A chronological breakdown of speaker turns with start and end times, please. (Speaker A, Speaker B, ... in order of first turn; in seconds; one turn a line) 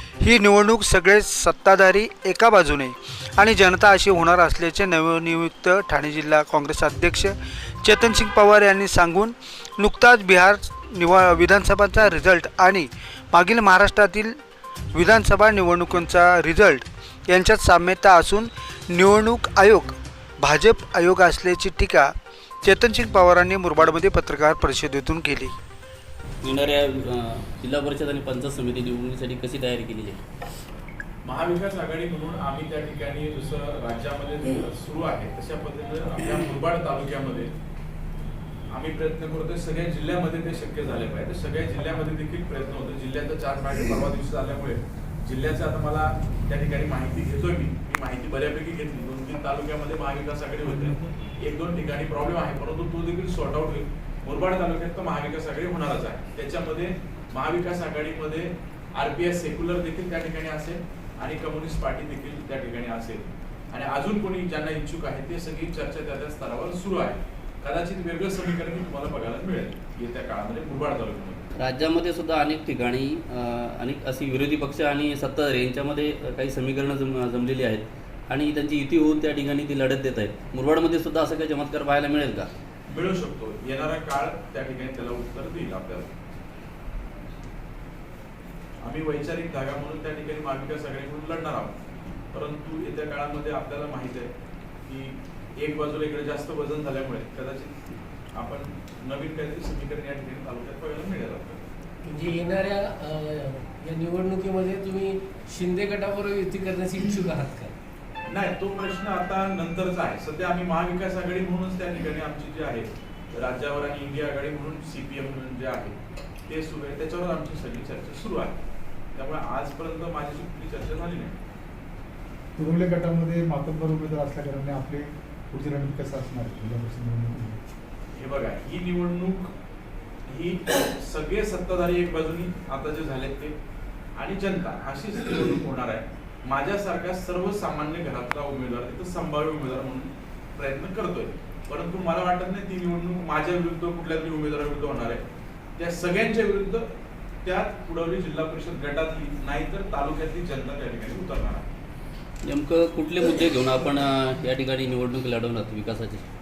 Speaker A: 0.2-14.4
Speaker A: 14.9-22.1
Speaker A: 22.6-25.5
Speaker B: 26.4-30.2
Speaker C: 31.2-37.5
Speaker C: 38.7-71.5
Speaker B: 71.6-82.5
Speaker C: 82.9-86.1
Speaker C: 88.8-91.7
Speaker C: 92.3-94.3
Speaker C: 94.9-97.8
Speaker C: 98.3-101.6
Speaker D: 102.0-107.8
Speaker C: 108.3-116.0
Speaker C: 116.5-118.6
Speaker C: 119.2-121.4
Speaker E: 122.6-127.6
Speaker C: 128.2-129.5
Speaker C: 130.3-133.6
Speaker C: 134.2-145.2
Speaker C: 145.8-146.9
Speaker C: 147.4-151.7
Speaker B: 152.5-156.2